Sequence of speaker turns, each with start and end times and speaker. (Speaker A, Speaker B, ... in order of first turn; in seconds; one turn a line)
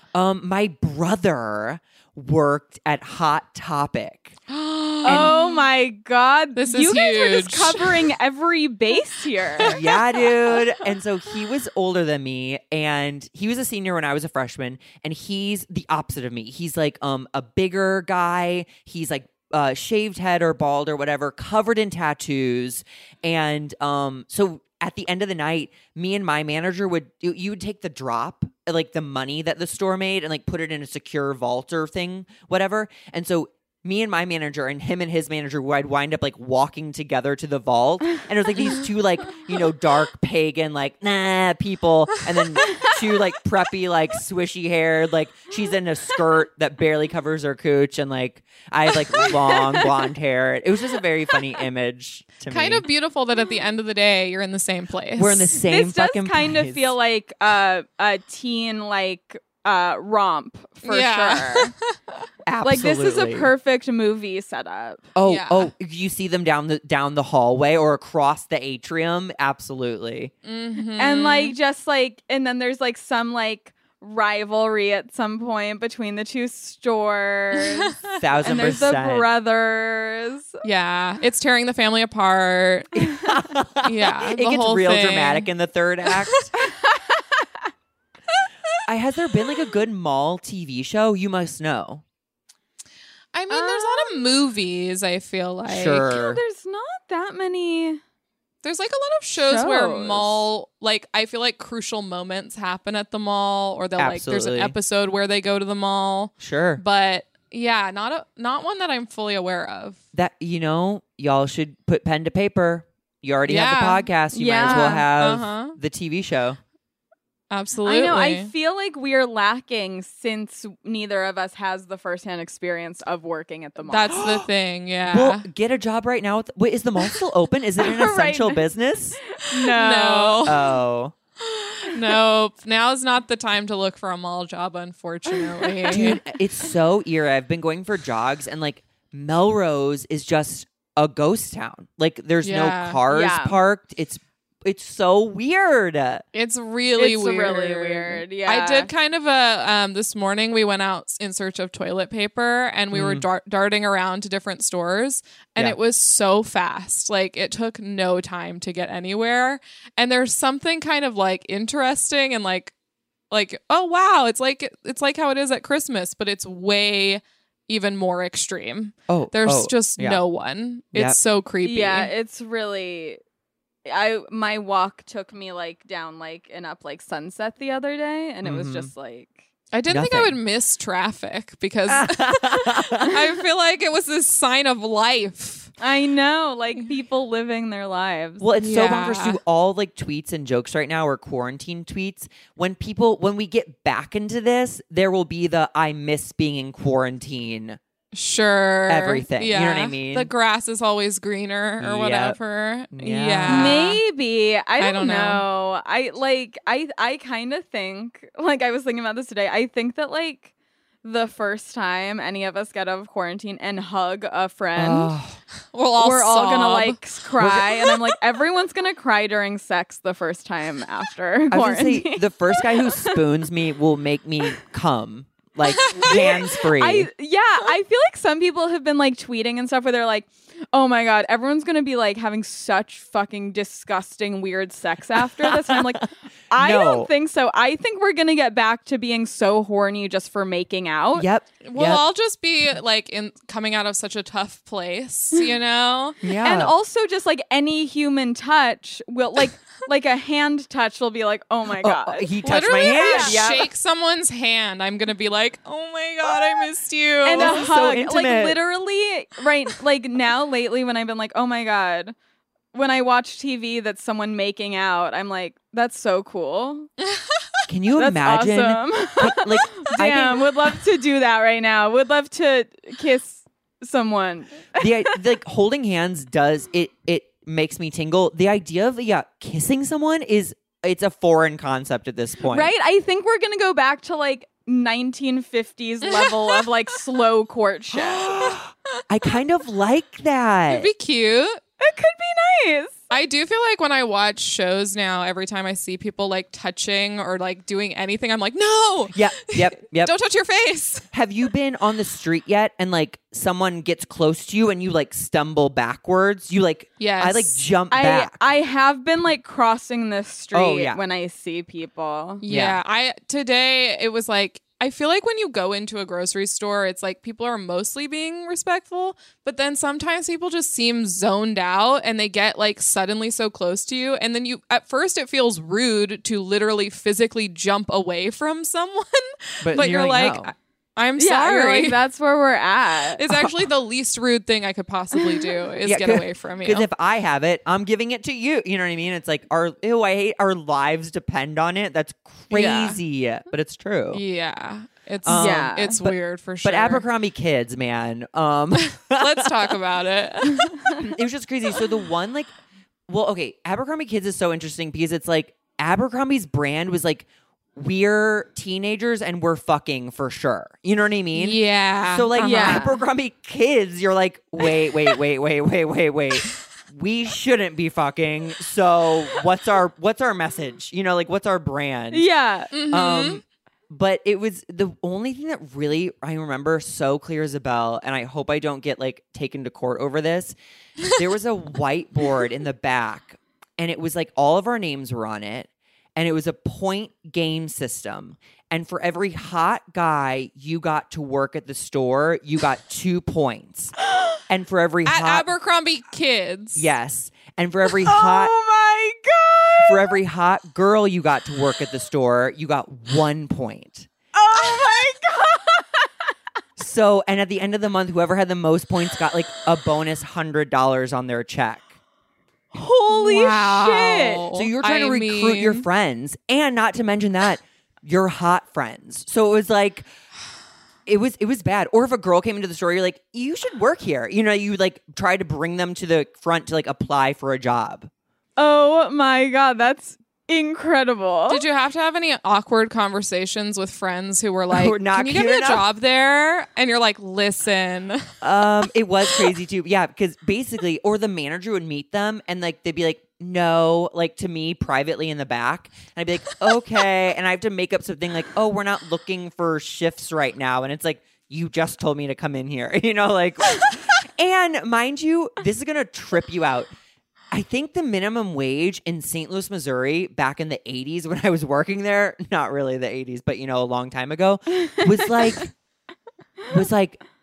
Speaker A: 0.1-4.4
Speaker B: 4.5-5.6
Speaker A: 5.0-5.3
Speaker C: 5.0-9.8
Speaker B: 6.5-8.0
Speaker A: 9.6-52.8
Speaker B: 52.5-55.5
Speaker A: 55.1-56.9
Speaker C: 55.6-61.7
Speaker B: 60.8-62.0
Speaker A: 62.4-63.5
Speaker C: 62.6-65.0
Speaker A: 65.1-70.3
Speaker B: 65.2-65.7
Speaker B: 70.4-71.5
Speaker C: 70.9-80.6
Speaker A: 78.1-79.3
Speaker B: 80.6-83.1
Speaker A: 83.0-86.5
Speaker B: 83.8-85.5
Speaker C: 86.6-87.2
Speaker A: 88.8-92.0
Speaker B: 93.3-96.1
Speaker C: 93.5-94.3
Speaker A: 95.7-96.4
Speaker C: 96.0-98.0
Speaker B: 98.6-110.0
Speaker C: 99.4-100.4
Speaker A: 104.0-104.7
Speaker A: 106.4-106.8
Speaker A: 110.1-116.6
Speaker B: 113.5-115.8
Speaker C: 114.3-115.1
Speaker B: 117.5-118.5
Speaker C: 117.8-124.2
Speaker B: 123.9-125.5
Speaker A: 124.1-124.5
Speaker A: 125.1-129.2
Speaker C: 127.8-128.6
Speaker C: 129.2-130.5
Speaker B: 129.5-130.6
Speaker A: 130.4-131.1
Speaker B: 131.4-136.2
Speaker C: 135.3-136.1
Speaker A: 135.9-146.2
Speaker B: 142.4-143.0
Speaker C: 143.1-143.6
Speaker B: 146.3-162.7
Speaker C: 147.0-148.9
Speaker A: 152.9-153.3
Speaker B: 163.3-172.1
Speaker A: 169.1-170.2
Speaker A: 170.9-171.2
Speaker C: 171.6-173.2
Speaker C: 173.8-179.4
Speaker A: 178.4-178.9
Speaker B: 179.7-185.7
Speaker A: 179.9-180.4
Speaker A: 181.9-183.3
Speaker C: 185.8-188.4
Speaker A: 188.4-197.8
Speaker B: 188.6-189.4
Speaker B: 198.1-204.0
Speaker A: 198.9-200.3
Speaker A: 201.8-202.4
Speaker A: 202.9-203.8
Speaker C: 203.5-210.5
Speaker B: 204.8-205.4
Speaker C: 211.0-215.1
Speaker A: 214.8-215.4
Speaker B: 215.7-218.1
Speaker C: 216.0-223.2
Speaker A: 221.5-227.1
Speaker B: 225.8-226.3
Speaker C: 225.9-241.3
Speaker A: 235.4-237.1
Speaker A: 241.2-242.0
Speaker B: 241.6-246.2
Speaker A: 246.2-246.7
Speaker C: 246.4-252.3
Speaker A: 251.7-253.7
Speaker B: 252.4-257.6
Speaker C: 252.9-253.4
Speaker C: 257.2-262.1
Speaker A: 257.3-258.6
Speaker C: 262.7-266.9
Speaker A: 267.7-270.5
Speaker C: 267.9-275.1
Speaker A: 274.8-282.7
Speaker C: 282.5-288.6
Speaker B: 286.2-286.6
Speaker B: 288.2-288.6
Speaker A: 289.1-290.9
Speaker B: 290.7-291.6
Speaker C: 291.8-293.0
Speaker B: 293.1-301.1
Speaker A: 299.1-300.1
Speaker A: 301.1-308.4
Speaker B: 307.0-307.6
Speaker C: 307.9-312.4
Speaker A: 310.5-311.0
Speaker B: 312.4-332.0
Speaker A: 312.5-312.8
Speaker A: 329.6-330.5
Speaker C: 331.2-333.2
Speaker B: 333.2-336.9
Speaker A: 333.3-333.6
Speaker C: 335.2-335.5
Speaker A: 335.8-344.2
Speaker B: 342.5-343.0
Speaker B: 344.1-347.0
Speaker A: 345.2-346.1
Speaker C: 345.3-346.0
Speaker A: 346.6-349.7
Speaker B: 349.0-351.1
Speaker A: 351.0-352.5
Speaker A: 353.1-372.3
Speaker B: 361.3-362.9
Speaker C: 362.4-363.0
Speaker C: 372.1-372.7
Speaker B: 372.7-373.4
Speaker A: 372.9-380.5
Speaker A: 381.1-393.9
Speaker A: 394.5-395.5
Speaker B: 395.1-396.9
Speaker A: 396.7-398.5
Speaker C: 397.9-400.2
Speaker A: 399.8-404.1
Speaker C: 404.3-406.1
Speaker A: 406.8-411.9
Speaker C: 412.7-414.4
Speaker B: 413.1-415.9
Speaker A: 414.5-420.1
Speaker A: 421.1-428.1
Speaker C: 428.6-431.6
Speaker B: 431.5-438.3
Speaker A: 434.7-435.8
Speaker A: 438.4-456.9
Speaker A: 457.5-465.7
Speaker A: 466.7-467.2